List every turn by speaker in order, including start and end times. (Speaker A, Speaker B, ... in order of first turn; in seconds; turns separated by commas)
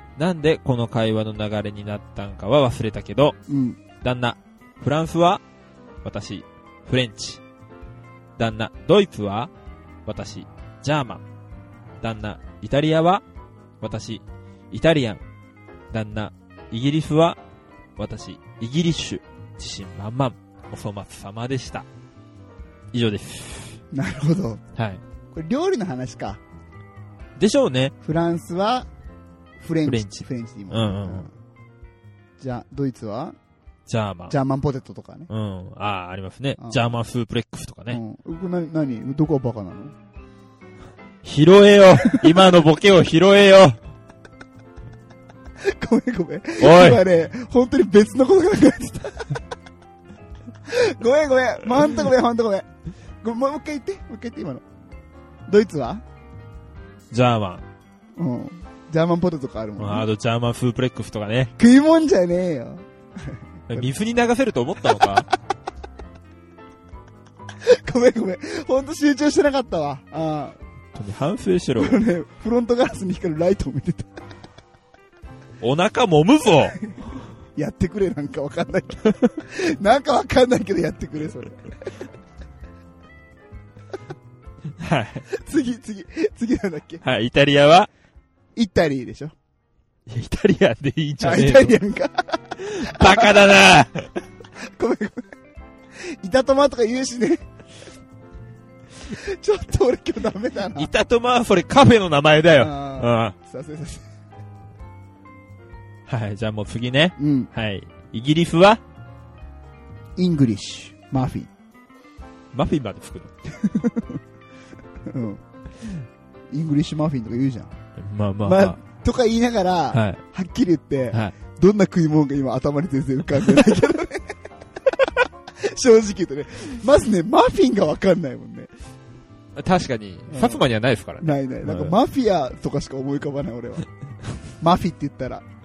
Speaker A: 0.2-3.4, Speaker B: 3.5-3.8, Speaker A: 4.0-5.4, Speaker A: 6.0-7.4, Speaker A: 8.4-9.5, Speaker A: 10.1-11.2, Speaker A: 12.0-13.2, Speaker A: 13.8-15.2, Speaker A: 15.9-17.4, Speaker A: 18.0-21.9, Speaker A: 22.9-23.8, Speaker B: 23.9-24.6, Speaker A: 24.8-25.0, Speaker B: 25.3-26.4, Speaker A: 27.4-27.9, Speaker B: 28.0-28.9, Speaker B: 29.6-31.3, Speaker A: 29.9-31.3, Speaker B: 32.4-33.4, Speaker A: 33.9-34.4, Speaker B: 34.3-35.3, Speaker A: 35.3-38.0, Speaker B: 36.6-36.8, Speaker B: 37.9-39.9, Speaker A: 41.2-43.8, Speaker B: 45.6-49.4, Speaker A: 46.6-47.0, Speaker B: 50.6-52.7, Speaker B: 53.2-54.6, Speaker B: 55.5-56.0, Speaker A: 57.1-57.6, Speaker B: 58.2-60.1, Speaker A: 59.8-61.5, Speaker B: 61.6-63.9, Speaker A: 63.7-65.3, Speaker B: 67.6-70.6, Speaker A: 70.9-72.0, Speaker B: 71.8-74.1, Speaker A: 75.6-76.8, Speaker B: 77.5-81.8, Speaker A: 84.8-85.2, Speaker B: 85.3-87.0, Speaker A: 87.0-87.9, Speaker B: 88.5-89.3, Speaker A: 90.1-91.8, Speaker B: 91.2-93.5, Speaker A: 92.6-94.1, Speaker B: 94.6-95.3, Speaker B: 96.0-97.5, Speaker B: 99.0-100.9, Speaker A: 100.8-103.3, Speaker B: 102.6-104.1, Speaker A: 106.1-108.8, Speaker B: 107.2-107.5, Speaker B: 110.2-111.5, Speaker A: 112.5-113.3, Speaker B: 113.6-114.2, Speaker B: 115.0-115.4, Speaker B: 116.5-117.7, Speaker A: 118.0-118.8, Speaker B: 118.4-124.3, Speaker A: 119.9-120.2, Speaker B: 125.0-128.7, Speaker A: 129.6-131.9, Speaker B: 130.3-130.7, Speaker B: 131.2-133.9, Speaker B: 134.4-135.4